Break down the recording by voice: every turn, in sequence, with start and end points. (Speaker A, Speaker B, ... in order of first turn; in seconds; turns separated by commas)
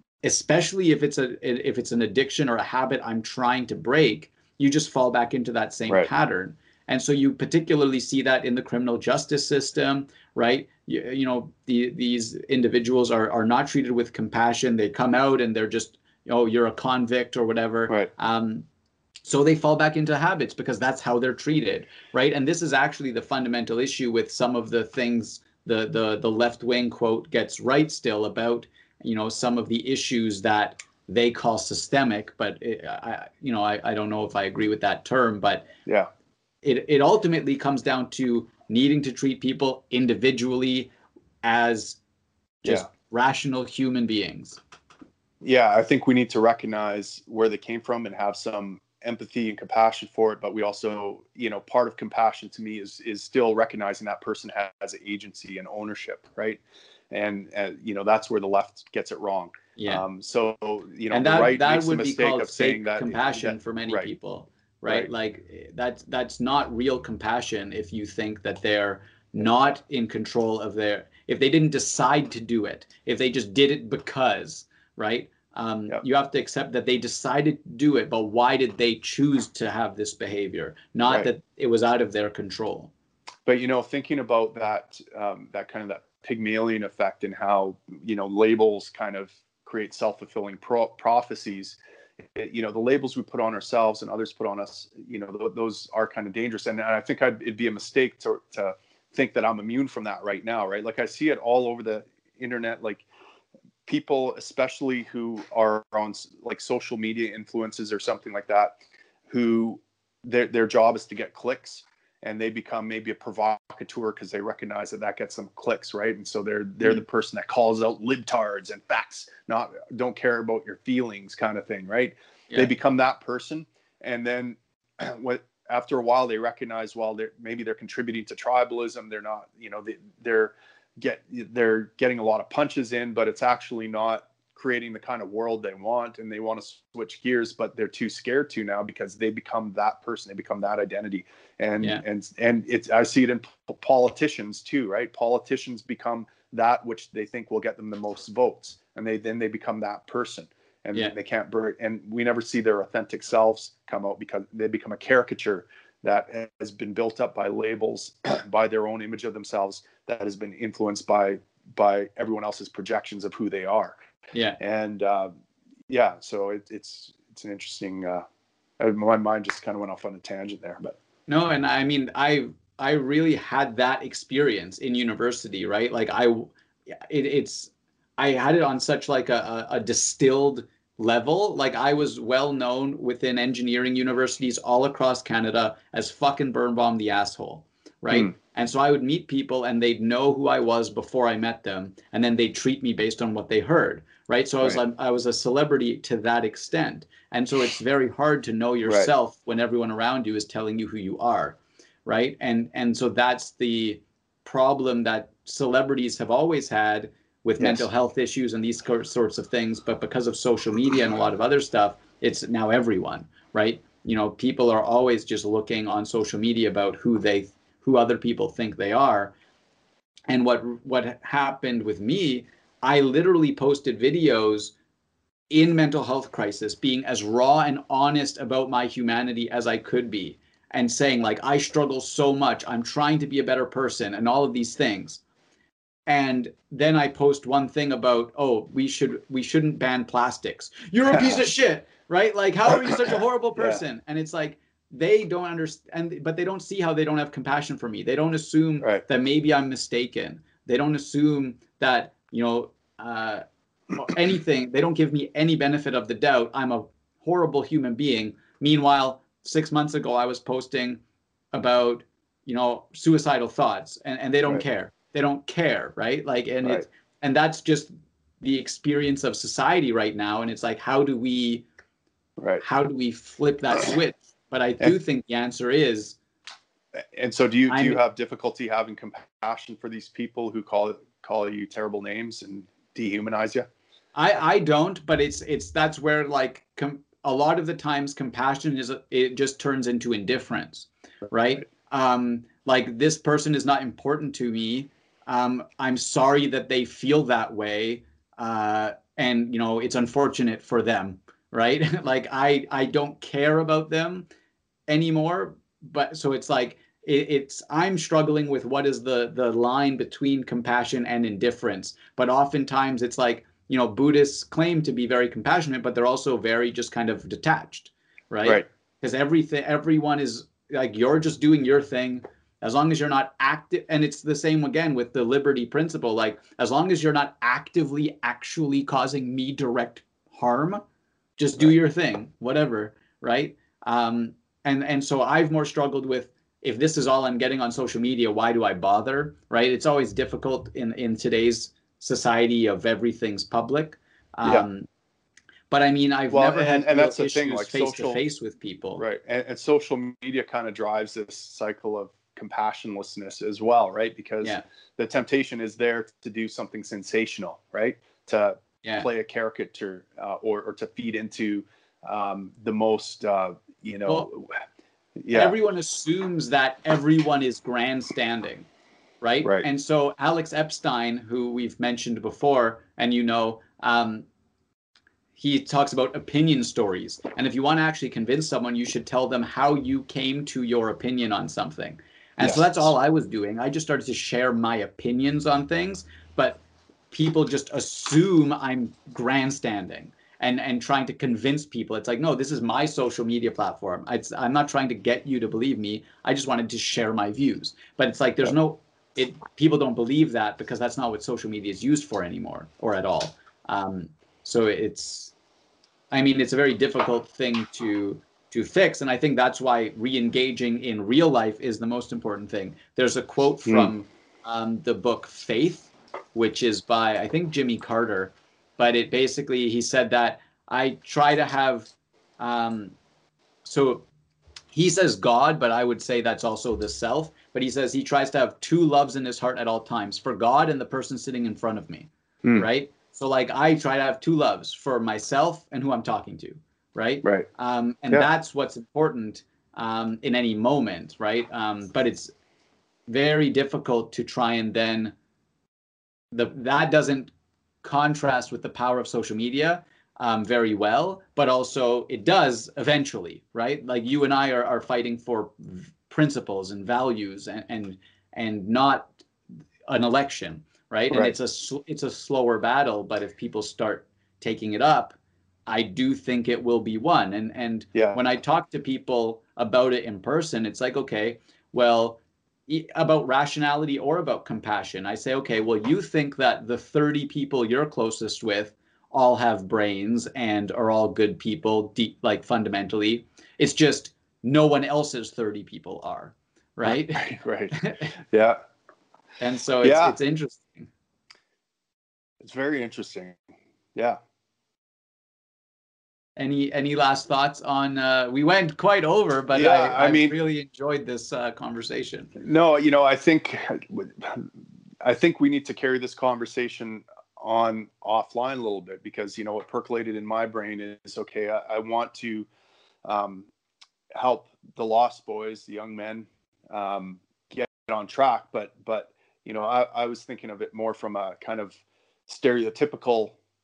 Speaker A: 0.2-18.6, Speaker A: 19.2-35.7, Speaker A: 36.6-40.9, Speaker A: 41.4-42.0, Speaker A: 42.6-44.6, Speaker B: 45.4-64.1, Speaker A: 59.8-60.0, Speaker A: 61.1-82.9, Speaker B: 83.5-91.8, Speaker B: 92.3-103.0, Speaker B: 103.8-108.8, Speaker B: 109.3-164.0, Speaker A: 164.3-164.6, Speaker B: 164.6-165.3, Speaker B: 165.9-168.2, Speaker B: 168.8-171.0, Speaker A: 171.3-219.3, Speaker B: 207.6-207.9, Speaker A: 220.3-224.7, Speaker A: 225.5-235.2, Speaker A: 236.1-261.0, Speaker B: 241.1-241.4, Speaker A: 261.5-271.6, Speaker B: 272.4-272.6, Speaker A: 272.6-276.2, Speaker B: 277.1-283.7, Speaker A: 277.7-278.0, Speaker A: 284.1-304.2, Speaker A: 304.9-330.8, Speaker A: 331.4-344.9, Speaker A: 345.7-349.0, Speaker B: 346.3-348.2, Speaker B: 349.0-364.5, Speaker B: 365.2-365.6, Speaker A: 365.3-368.7, Speaker A: 369.2-374.2, Speaker A: 375.4-405.3, Speaker B: 382.4-382.9, Speaker A: 406.1-422.9, Speaker B: 413.6-413.9, Speaker A: 423.6-424.1, Speaker A: 424.7-442.3, Speaker A: 443.1-445.1, Speaker A: 446.3-447.3, Speaker A: 447.8-459.2, Speaker A: 459.9-465.1, Speaker A: 465.7-488.1, Speaker B: 467.9-468.2, Speaker B: 486.8-488.6, Speaker A: 489.4-490.9, Speaker B: 489.8-490.1, Speaker B: 492.4-493.4, Speaker A: 496.4-502.3, Speaker B: 499.5-500.3, Speaker B: 502.4-504.5, Speaker B: 505.0-512.5, Speaker B: 513.0-513.5, Speaker B: 514.1-523.4